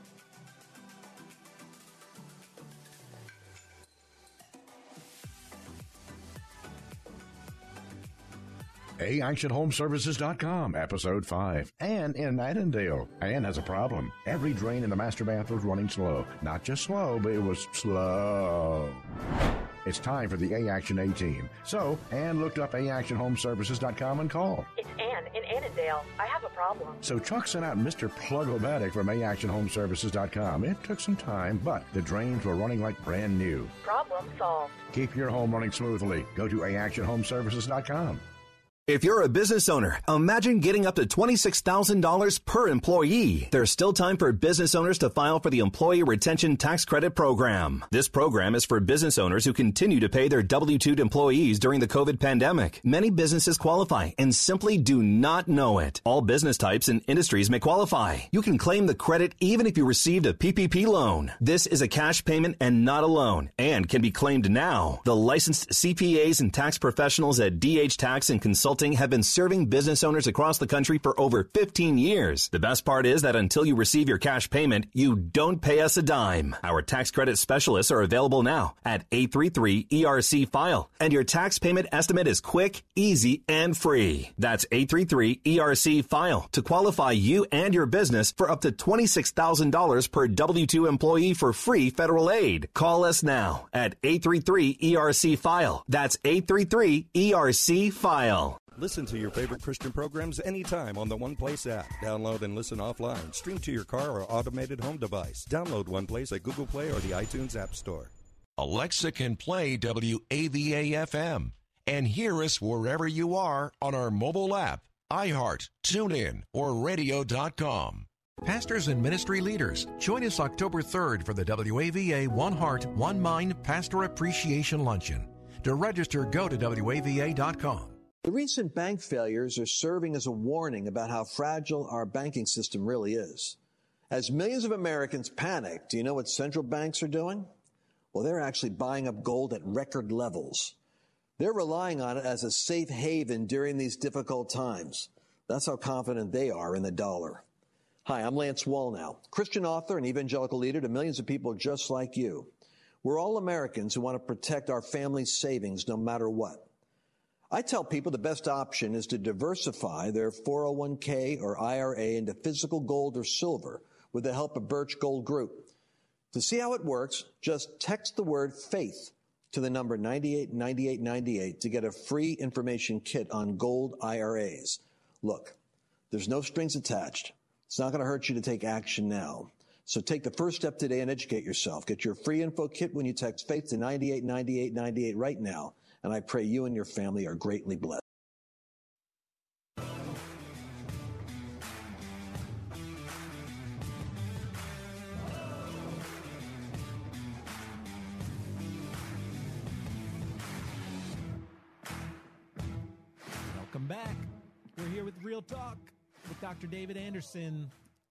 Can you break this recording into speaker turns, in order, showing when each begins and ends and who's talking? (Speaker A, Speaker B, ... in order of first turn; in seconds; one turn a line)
Speaker A: 9.0-19.0
Speaker A: 19.8-24.7
Speaker B: 24.7-27.0
Speaker A: 27.0-33.7
Speaker B: 33.8-34.8
Speaker A: 34.9-38.2
Speaker C: 38.9-98.6
Speaker D: 98.7-108.1
Speaker E: 108.6-128.0
Speaker F: 128.2-133.6
Speaker F: 134.1-137.5
Speaker F: 138.1-140.8
Speaker F: 141.4-147.4
Speaker F: 148.0-152.5
Speaker F: 153.0-156.7
Speaker F: 157.5-165.7
Speaker F: 166.3-175.6
Speaker F: 176.1-188.0
Speaker G: 203.5-207.7